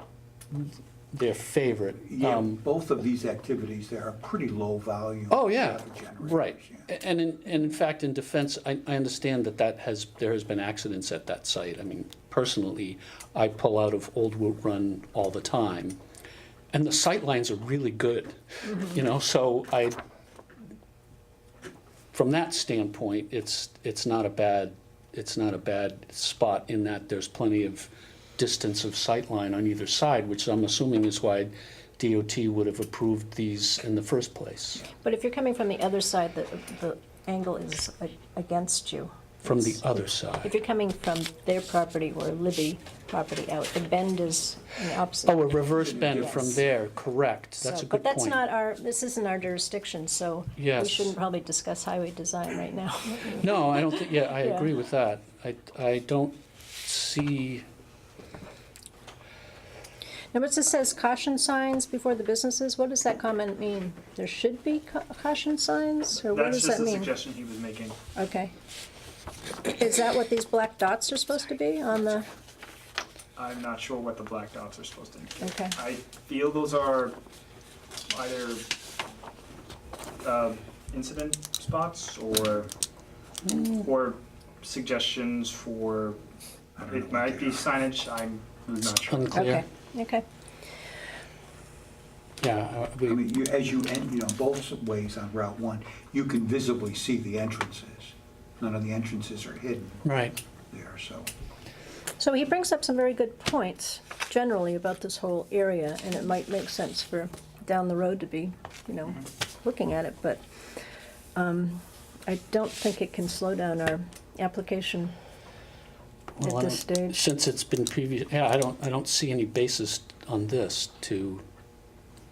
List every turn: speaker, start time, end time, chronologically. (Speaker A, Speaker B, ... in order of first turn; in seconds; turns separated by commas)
Speaker A: 0.5-2.6, Speaker B: 2.0-6.9, Speaker A: 5.3-16.0, Speaker A: 16.7-20.0, Speaker A: 22.1-34.9, Speaker C: 35.0-45.5, Speaker A: 39.4-40.5, Speaker A: 45.2-48.4, Speaker B: 45.7-46.6, Speaker C: 47.6-54.7, Speaker A: 50.6-51.1, Speaker A: 53.4-57.6, Speaker C: 60.3-67.1, Speaker D: 66.3-68.0, Speaker C: 68.2-68.5, Speaker C: 69.7-72.3, Speaker D: 73.4-77.2, Speaker C: 75.4-75.8, Speaker D: 78.1-78.7, Speaker D: 80.2-82.7, Speaker D: 83.5-86.2, Speaker B: 86.8-87.7, Speaker D: 86.8-89.6, Speaker A: 89.1-89.7, Speaker C: 89.3-90.2, Speaker A: 92.4-93.2, Speaker B: 93.1-100.1, Speaker A: 100.0-100.4, Speaker B: 100.7-101.3, Speaker C: 102.2-110.4, Speaker C: 111.3-115.1, Speaker A: 116.4-121.4, Speaker C: 116.4-117.2